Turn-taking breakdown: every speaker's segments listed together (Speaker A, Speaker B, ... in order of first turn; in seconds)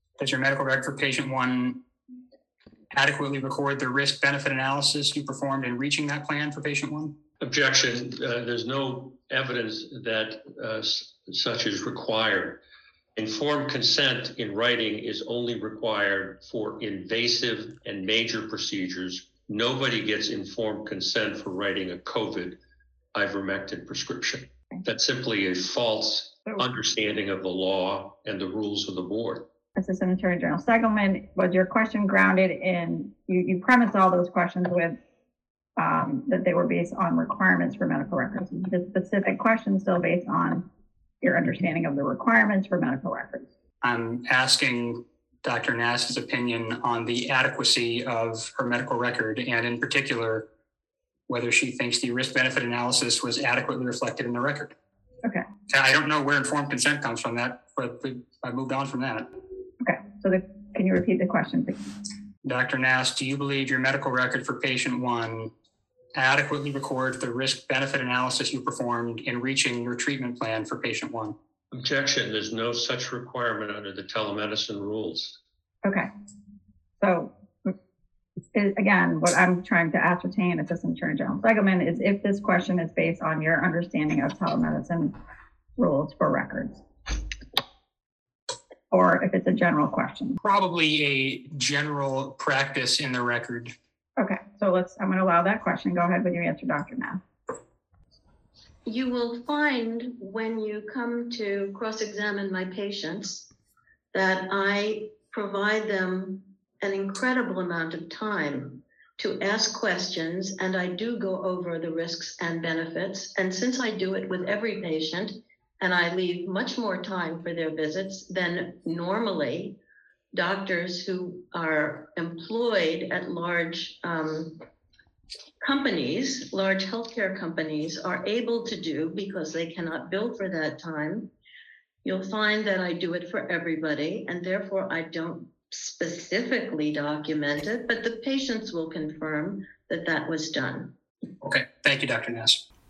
Speaker A: 0.2-1.8, 2.9-7.2, 43.8-50.5, 51.3-54.8, 55.7-59.3, 62.4-65.5, 66.1-71.3, 90.4-93.7, 141.4-142.6
Speaker B: 7.4-12.6, 13.2-22.6, 23.1-29.5, 71.7-75.4
Speaker C: 29.8-35.0, 35.8-40.7, 41.2-43.5, 59.8-61.9, 75.8-76.1, 77.0-77.7, 78.5-85.1, 85.8-86.8, 88.9-90.4, 94.2-97.2
Speaker D: 98.8-103.5, 104.1-119.8, 120.3-124.6, 125.6-131.3, 132.0-140.9